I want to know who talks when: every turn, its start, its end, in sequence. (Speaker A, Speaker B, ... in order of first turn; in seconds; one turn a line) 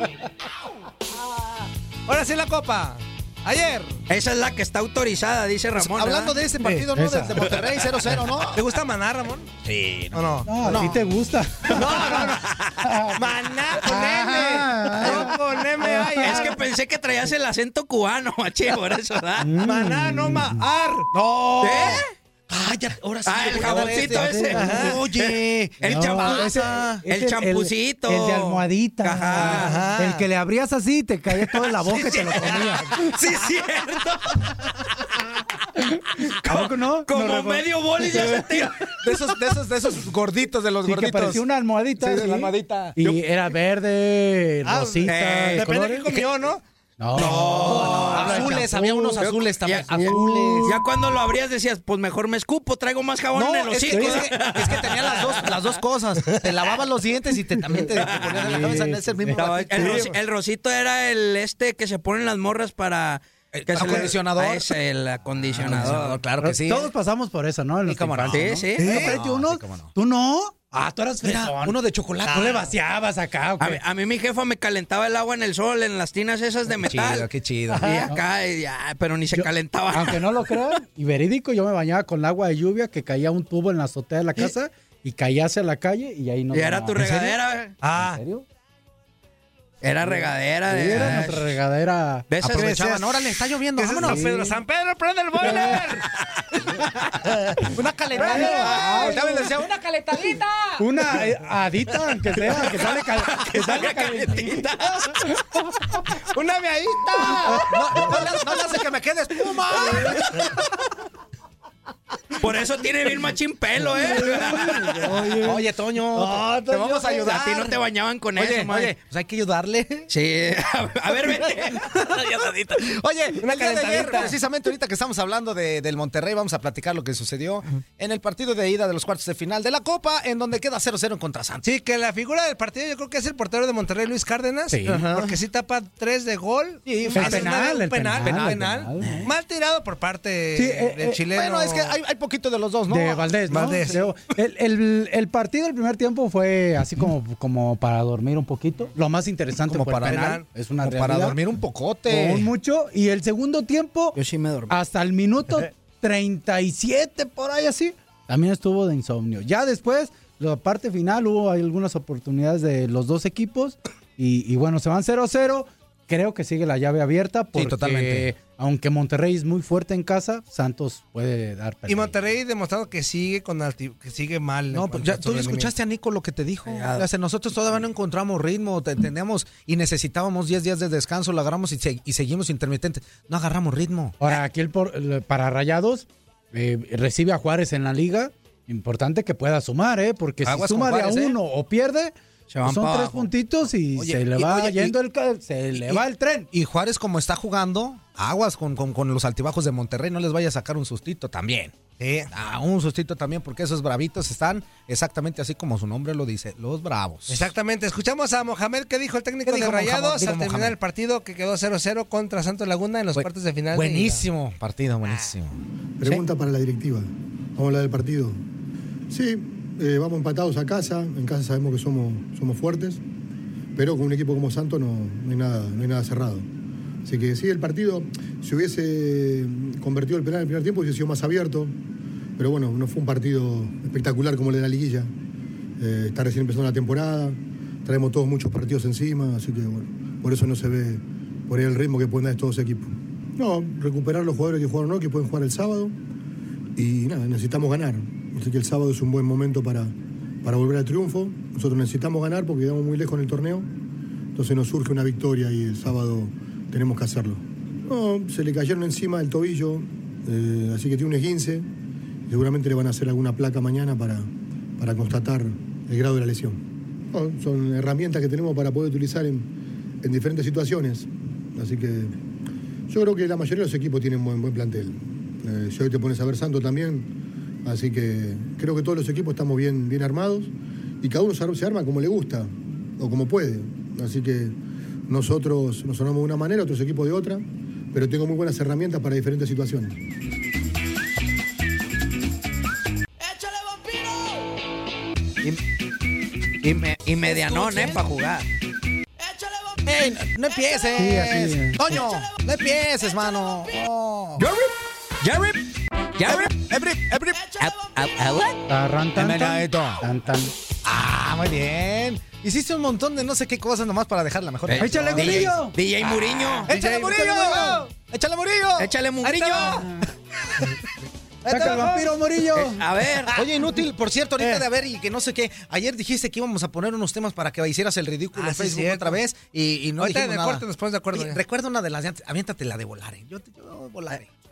Speaker A: 2.1-4.0
Speaker B: 4.1-6.3
Speaker C: 5.7-8.6
Speaker D: 6.9-7.4
Speaker A: 8.5-9.5
Speaker C: 9.6-11.0
Speaker A: 10.1-10.8
Speaker D: 10.4-13.2
Speaker A: 11.8-12.4
Speaker C: 11.8-12.5
Speaker A: 13.2-16.6
Speaker D: 13.8-16.5
Speaker C: 13.9-15.9
Speaker B: 16.2-19.6
Speaker D: 19.4-20.6
Speaker A: 19.6-21.1
Speaker C: 21.1-27.1
Speaker B: 21.6-22.1
Speaker B: 23.2-29.8
Speaker D: 23.9-24.8
Speaker A: 24.6-24.9
Speaker D: 25.8-33.1
Speaker C: 29.4-29.7
Speaker A: 29.4-30.2
Speaker B: 31.4-34.6
Speaker D: 35.8-38.6
Speaker B: 36.2-39.1
Speaker C: 39.0-41.4
Speaker D: 40.8-46.2
Speaker C: 42.0-43.1
Speaker A: 44.6-46.6
Speaker B: 45.1-45.7
Speaker D: 47.0-49.2
Speaker C: 47.1-50.8
Speaker B: 47.1-48.6
Speaker B: 49.2-55.8
Speaker D: 50.0-50.9
Speaker C: 53.3-60.1
Speaker D: 53.9-54.5
Speaker B: 58.0-58.6
Speaker D: 58.1-59.8
Speaker B: 59.3-66.2
Speaker A: 59.8-60.1
Speaker C: 63.5-64.7
Speaker C: 65.4-66.9
Speaker D: 65.6-73.8
Speaker C: 67.8-69.9
Speaker B: 68.3-68.8
Speaker A: 68.8-69.2
Speaker C: 71.2-72.7
Speaker B: 73.6-77.3
Speaker C: 76.7-78.1
Speaker D: 77.8-78.2
Speaker B: 77.8-80.8
Speaker D: 79.3-88.5
Speaker B: 86.5-87.7
Speaker A: 87.8-88.2
Speaker B: 89.8-91.5
Speaker D: 90.0-92.6
Speaker C: 90.9-91.2
Speaker B: 92.3-92.9
Speaker C: 92.4-94.5
Speaker A: 93.8-96.1
Speaker D: 94.0-94.6
Speaker D: 95.4-95.9
Speaker C: 97.6-99.8
Speaker D: 98.2-99.5
Speaker B: 98.2-100.4
Speaker D: 100.8-104.7
Speaker B: 102.6-105.1
Speaker D: 105.2-105.6
Speaker A: 106.3-107.7
Speaker C: 107.4-110.4
Speaker B: 107.6-108.1
Speaker B: 110.0-110.4
Speaker B: 112.4-115.3
Speaker D: 113.8-115.6
Speaker C: 114.2-120.1
Speaker A: 116.2-116.6
Speaker B: 116.3-119.0
Speaker B: 120.1-122.0
Speaker C: 121.1-131.7
Speaker A: 123.4-124.4
Speaker A: 131.6-141.9
Speaker D: 134.7-135.1
Speaker C: 134.8-135.4
Speaker C: 136.8-139.3
Speaker D: 137.1-139.3
Speaker D: 140.5-141.2
Speaker C: 141.3-143.8
Speaker D: 142.9-151.4
Speaker A: 143.5-144.0
Speaker C: 149.7-152.5
Speaker A: 150.1-150.4
Speaker D: 152.1-154.2
Speaker B: 154.1-154.7
Speaker D: 154.7-172.3
Speaker C: 167.5-168.3
Speaker A: 171.9-175.7
Speaker C: 174.7-184.2
Speaker B: 176.7-177.0
Speaker D: 184.2-196.5
Speaker C: 190.4-191.3
Speaker B: 192.5-193.3
Speaker C: 193.9-194.9
Speaker C: 195.8-201.8
Speaker A: 202.0-202.3
Speaker C: 202.3-207.5
Speaker A: 207.3-214.2
Speaker C: 209.4-210.8
Speaker C: 213.1-216.2
Speaker E: 216.0-218.4
Speaker E: 219.1-223.0
Speaker E: 223.8-226.5
Speaker E: 227.0-231.8
Speaker E: 232.4-235.1
Speaker E: 235.8-245.9
Speaker E: 246.8-253.7
Speaker E: 254.3-261.7
Speaker E: 262.3-266.6
Speaker E: 267.1-269.5
Speaker E: 270.0-272.1
Speaker E: 272.9-277.1
Speaker E: 277.6-284.5
Speaker E: 285.1-290.0
Speaker B: 296.6-298.5
Speaker C: 297.1-298.0
Speaker C: 299.9-304.5
Speaker D: 300.9-302.0
Speaker B: 304.4-305.6
Speaker B: 306.1-306.6
Speaker C: 306.2-307.6
Speaker B: 307.6-308.6
Speaker D: 308.7-310.5
Speaker C: 309.1-310.0
Speaker C: 310.8-319.8
Speaker B: 314.6-316.7
Speaker D: 314.8-315.8
Speaker A: 316.7-317.9
Speaker D: 317.1-317.8
Speaker B: 318.8-319.9
Speaker A: 319.2-319.8
Speaker D: 319.8-320.1
Speaker D: 321.4-322.9
Speaker A: 321.5-322.1
Speaker C: 321.6-321.9
Speaker B: 322.5-323.4
Speaker C: 323.3-334.3
Speaker A: 328.3-329.2
Speaker A: 330.0-331.4